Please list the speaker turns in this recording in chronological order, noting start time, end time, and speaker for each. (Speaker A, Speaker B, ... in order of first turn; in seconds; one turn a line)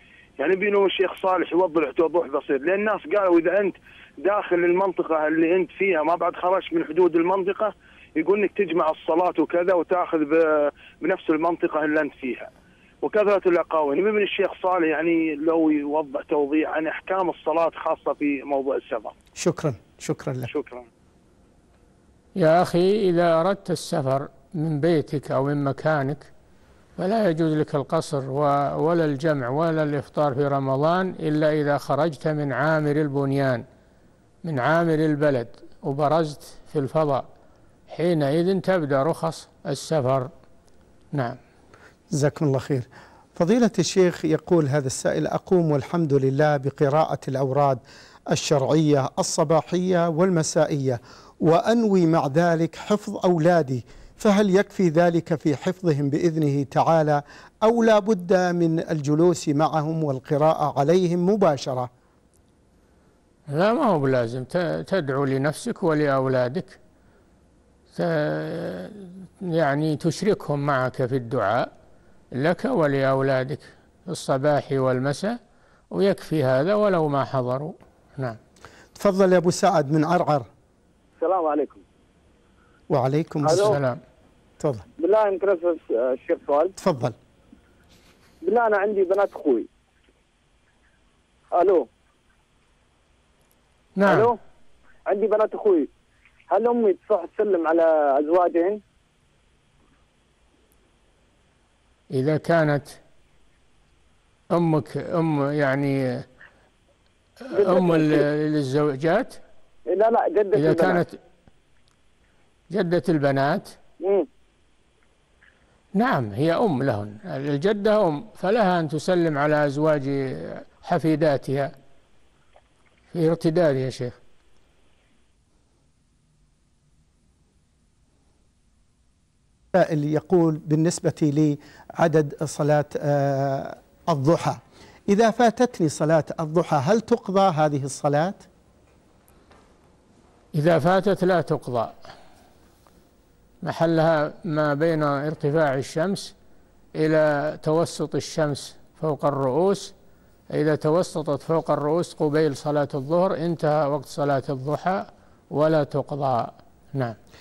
Speaker A: 0.4-12.5
Speaker A: 13.0-19.1
Speaker B: 19.4-20.5
Speaker A: 20.5-20.9
Speaker C: 22.4-26.3
Speaker C: 27.0-33.6
Speaker C: 34.4-37.3
Speaker C: 37.9-40.3
Speaker C: 41.1-41.4
Speaker B: 42.1-61.9
Speaker C: 63.5-66.8
Speaker C: 67.9-71.7
Speaker C: 72.3-75.4
Speaker C: 75.9-78.4
Speaker B: 79.0-80.5
Speaker D: 81.2-81.8
Speaker B: 82.9-83.8
Speaker D: 83.5-83.8
Speaker C: 83.5-84.0
Speaker D: 85.0-86.7
Speaker B: 86.8-87.2
Speaker D: 88.4-89.7
Speaker D: 91.5-91.9
Speaker C: 94.0-94.3
Speaker D: 94.0-94.4
Speaker D: 95.1-95.9
Speaker D: 96.5-98.8
Speaker C: 102.1-103.0
Speaker C: 104.5-106.3
Speaker C: 107.5-109.4
Speaker D: 107.5-108.2
Speaker D: 109.9-111.0
Speaker C: 110.5-111.2
Speaker C: 112.7-113.8
Speaker D: 114.0-114.3
Speaker C: 115.9-121.7
Speaker C: 123.1-124.2
Speaker B: 129.7-138.4
Speaker C: 140.5-142.0
Speaker C: 143.6-146.3
Speaker C: 147.0-149.9
Speaker C: 150.5-157.2